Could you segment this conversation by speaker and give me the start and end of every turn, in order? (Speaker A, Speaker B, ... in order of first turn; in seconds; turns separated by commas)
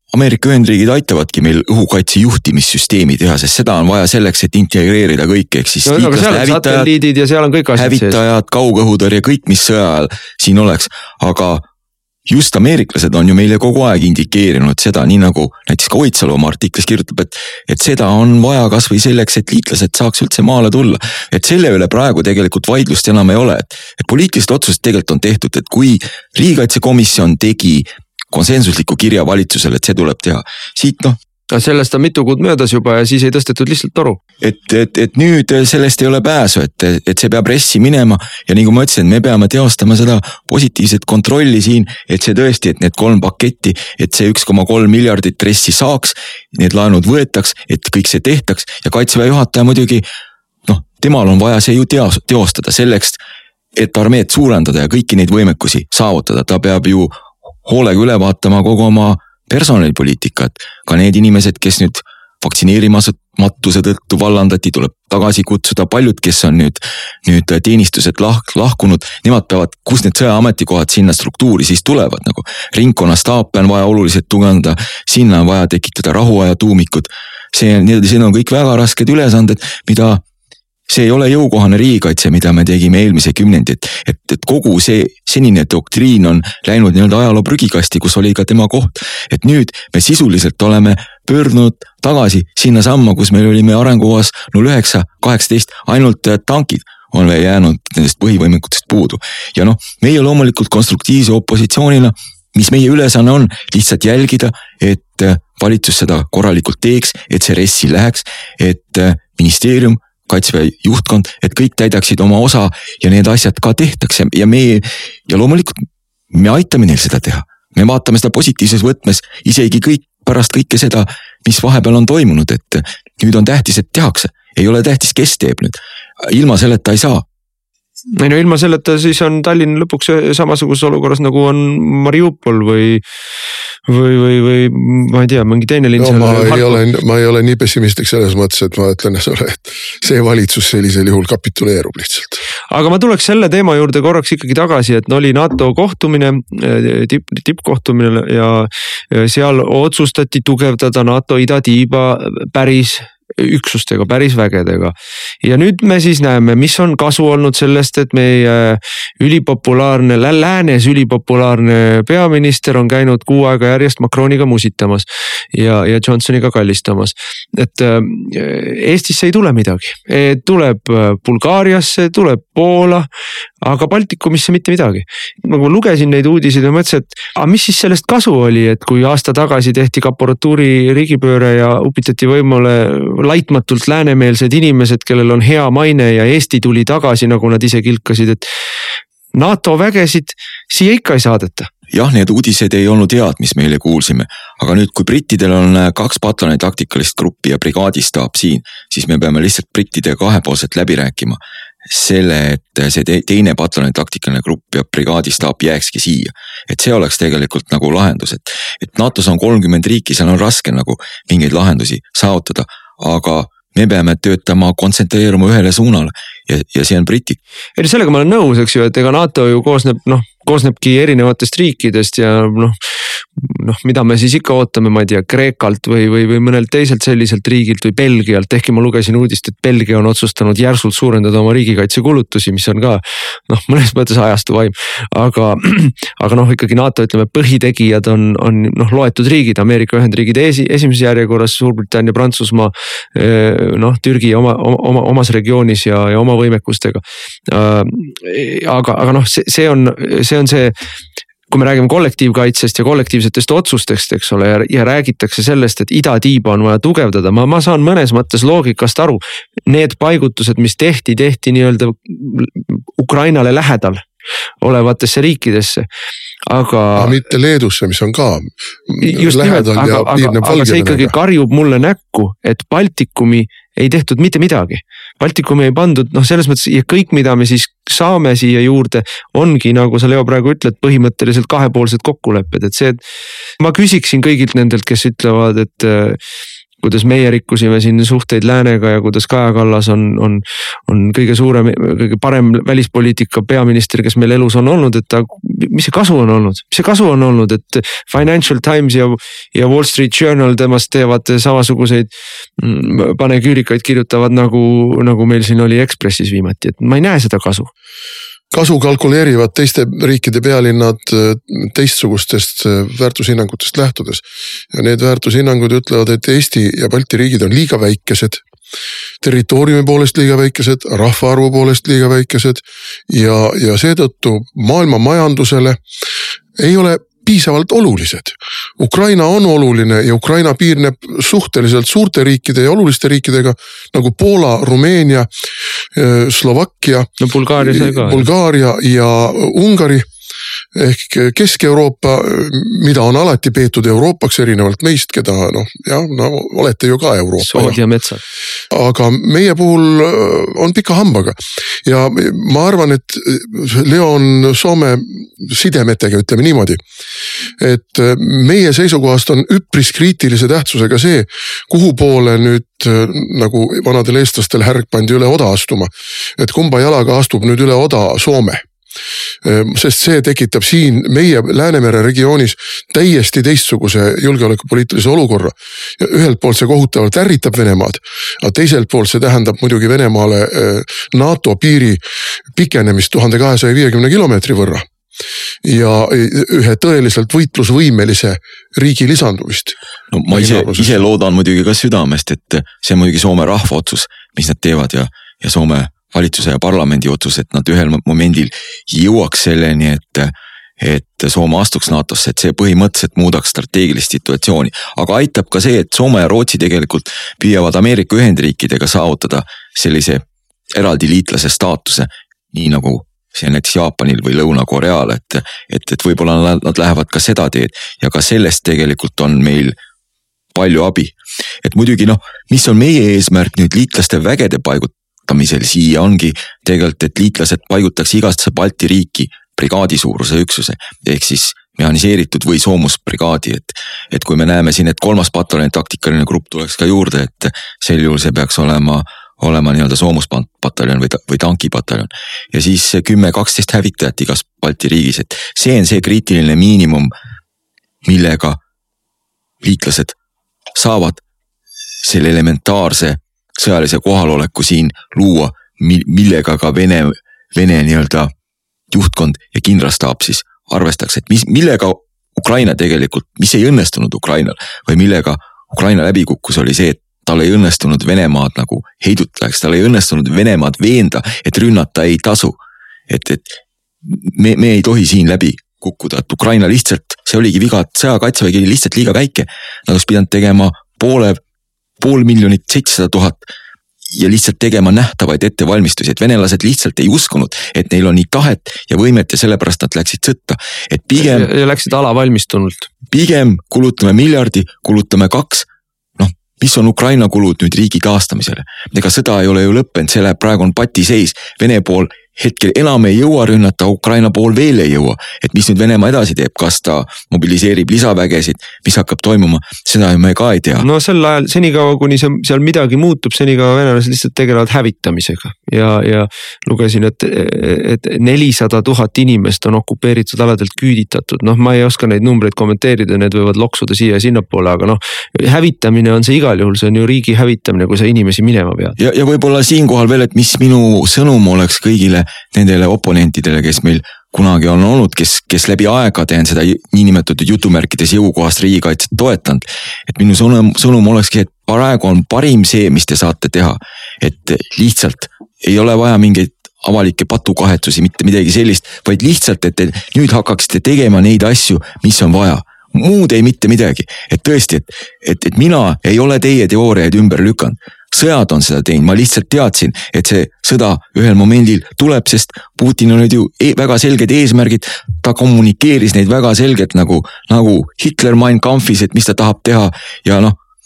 Speaker A: 0.1-6.9, Speaker B: 5.8-8.2, Speaker A: 7.8-11.6, Speaker A: 12.3-31.2, Speaker B: 31.5-34.2, Speaker A: 34.4-50.0, Speaker A: 50.7-53.2, Speaker A: 53.8-57.1, Speaker A: 57.6-80.2, Speaker A: 80.9-127.2, Speaker B: 128.2-133.0, Speaker B: 133.9-136.8, Speaker C: 136.0-142.4, Speaker B: 142.7-173.1, Speaker B: 173.6-188.4, Speaker B: 189.3-191.7, Speaker A: 191.9-217.4, Speaker B: 217.8-222.8, Speaker B: 223.4-250.8, Speaker B: 251.5-264.0, Speaker B: 264.6-265.9, Speaker B: 266.5-267.2, Speaker C: 267.0-271.1, Speaker B: 269.0-283.0, Speaker B: 283.6-286.2, Speaker B: 286.8-307.7, Speaker C: 308.5-318.4, Speaker C: 319.2-325.8, Speaker C: 326.6-335.3, Speaker C: 335.9-340.1, Speaker B: 337.2-338.3, Speaker C: 340.8-347.8, Speaker B: 347.4-348.2, Speaker C: 348.7-356.8, Speaker C: 357.6-368.6, Speaker C: 369.4-382.0, Speaker C: 382.6-384.9, Speaker C: 385.6-389.8, Speaker A: 390.1-410.2, Speaker C: 390.3-391.1, Speaker A: 410.7-419.8, Speaker A: 420.6-447.1, Speaker A: 448.1-448.6, Speaker A: 449.6-450.1, Speaker A: 450.8-451.2, Speaker A: 452.0-458.3, Speaker A: 458.9-472.6, Speaker A: 473.1-481.4, Speaker A: 482.0-483.4, Speaker A: 484.2-491.5, Speaker B: 491.2-492.9, Speaker A: 493.1-495.7, Speaker A: 496.2-510.9, Speaker B: 510.8-529.0, Speaker A: 529.0-570.6